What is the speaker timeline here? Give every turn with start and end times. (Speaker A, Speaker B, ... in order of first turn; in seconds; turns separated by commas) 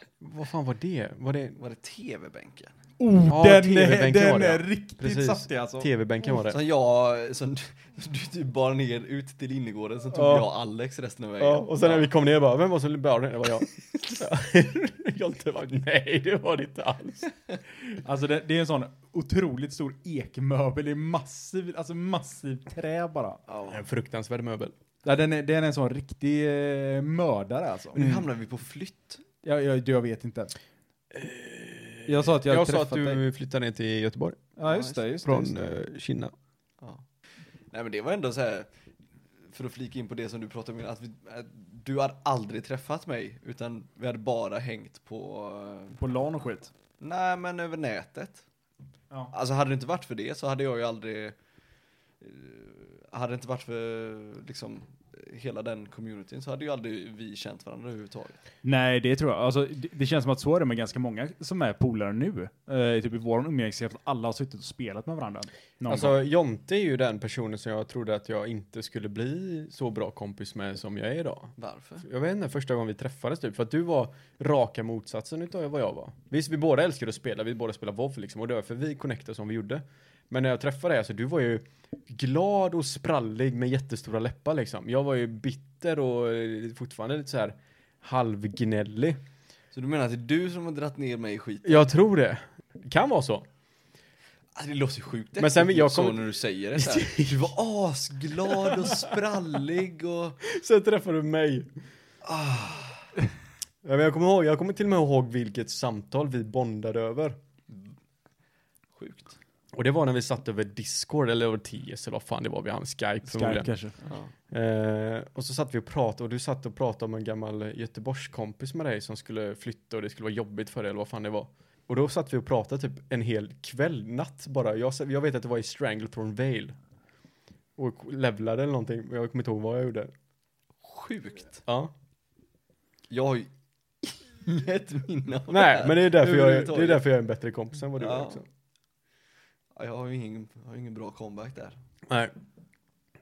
Speaker A: 0.2-1.6, Speaker B: 1.6-2.8, Speaker C: 3.0-5.9, Speaker A: 3.3-6.6, Speaker B: 6.2-12.1, Speaker A: 10.1-10.5, Speaker A: 11.4-17.3, Speaker B: 13.9-14.2, Speaker C: 18.0-23.4, Speaker B: 23.5-23.8, Speaker A: 23.7-24.7, Speaker C: 25.0-28.0, Speaker B: 27.9-29.2, Speaker A: 27.9-28.3, Speaker C: 29.4-30.5, Speaker A: 31.1-34.5, Speaker C: 32.1-33.2, Speaker C: 34.6-35.7, Speaker B: 34.6-35.0, Speaker A: 35.2-36.3, Speaker B: 37.7-38.7, Speaker B: 39.5-46.0, Speaker C: 46.0-46.7, Speaker B: 47.0-48.4, Speaker B: 49.3-51.3, Speaker B: 52.2-58.4, Speaker C: 58.6-66.2, Speaker A: 65.9-89.2, Speaker B: 71.6-72.0, Speaker B: 89.7-91.9, Speaker A: 91.6-93.5, Speaker B: 94.5-100.4, Speaker A: 95.4-97.5, Speaker A: 98.5-99.2, Speaker A: 100.4-101.7, Speaker B: 102.2-103.1, Speaker A: 103.8-107.4, Speaker B: 107.7-107.9, Speaker B: 109.0-109.4, Speaker A: 109.7-113.7, Speaker C: 113.2-114.0, Speaker B: 114.0-114.3, Speaker A: 114.5-126.7, Speaker A: 127.8-130.1, Speaker B: 130.8-131.6, Speaker A: 131.7-131.9, Speaker B: 133.1-133.5, Speaker B: 134.0-137.0, Speaker A: 135.5-138.4, Speaker B: 138.0-138.4, Speaker B: 139.8-141.8, Speaker A: 142.1-142.3